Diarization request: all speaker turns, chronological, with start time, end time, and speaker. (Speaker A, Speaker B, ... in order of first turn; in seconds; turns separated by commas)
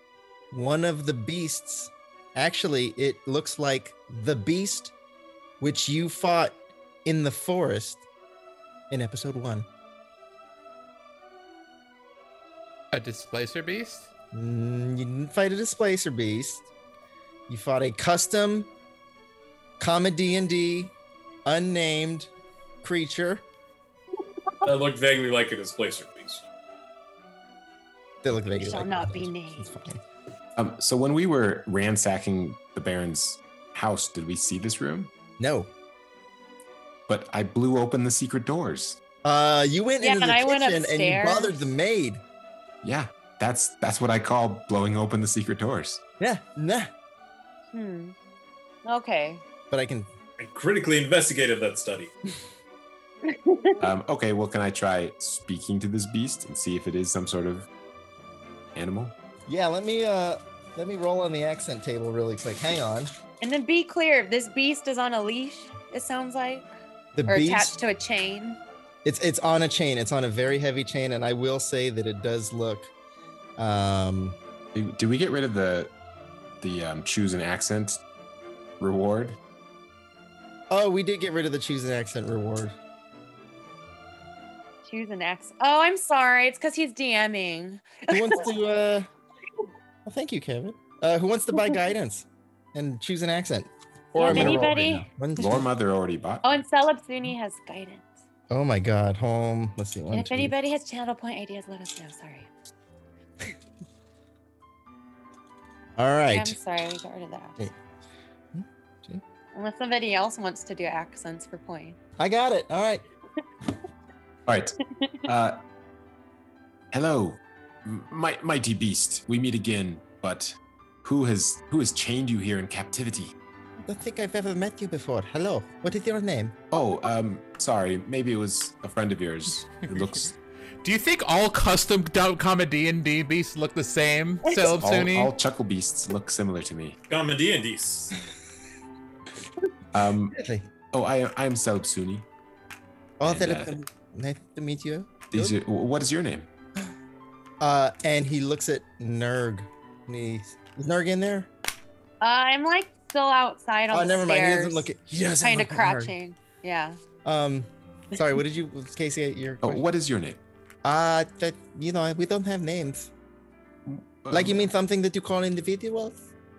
Speaker A: 0.5-4.9, Speaker A: 5.6-8.0, Speaker A: 8.9-9.7, Speaker B: 12.9-14.1, Speaker A: 14.3-16.7, Speaker A: 17.5-18.7, Speaker A: 19.8-20.9, Speaker A: 21.4-22.3, Speaker A: 22.8-23.4, Speaker C: 24.6-26.4, Speaker A: 28.2-30.0, Speaker D: 28.5-29.7, Speaker E: 30.6-35.1, Speaker A: 35.4-35.7, Speaker E: 37.1-39.0, Speaker A: 39.2-42.2, Speaker D: 40.0-41.7, Speaker E: 42.8-46.0, Speaker A: 46.2-46.9, Speaker D: 47.7-48.1, Speaker D: 48.8-49.4, Speaker A: 49.7-50.1, Speaker C: 50.4-52.1, Speaker D: 53.2-53.8, Speaker E: 53.8-57.7, Speaker E: 58.8-59.1, Speaker A: 59.5-63.1, Speaker D: 63.4-66.7, Speaker A: 67.2-67.8, Speaker D: 67.3-68.6, Speaker A: 69.0-72.9, Speaker A: 73.6-74.4, Speaker E: 74.7-75.9, Speaker E: 76.6-78.0, Speaker E: 78.8-79.4, Speaker A: 80.7-82.7, Speaker D: 84.8-88.5, Speaker A: 88.1-89.1, Speaker A: 90.1-95.6, Speaker D: 94.2-95.1, Speaker E: 94.2-94.6, Speaker E: 95.4-96.5, Speaker D: 96.4-98.2, Speaker A: 98.5-100.5, Speaker D: 100.1-102.5, Speaker A: 106.0-106.6, Speaker D: 106.3-107.6, Speaker A: 108.5-109.2, Speaker D: 109.5-112.0, Speaker A: 112.2-113.0, Speaker E: 114.5-115.6, Speaker E: 116.9-123.3, Speaker A: 123.8-126.5, Speaker E: 126.7-130.3, Speaker B: 130.8-135.3, Speaker E: 134.6-137.0, Speaker C: 137.1-138.2, Speaker E: 139.9-140.4, Speaker A: 140.3-140.7, Speaker E: 140.9-142.2, Speaker A: 143.2-145.5, Speaker E: 143.2-143.7, Speaker E: 145.3-146.5, Speaker A: 147.6-151.5, Speaker D: 152.2-154.9, Speaker A: 153.9-156.2, Speaker D: 155.4-157.0, Speaker A: 157.2-159.8, Speaker E: 159.6-160.4, Speaker A: 160.8-163.1, Speaker E: 163.9-164.7, Speaker A: 164.3-166.3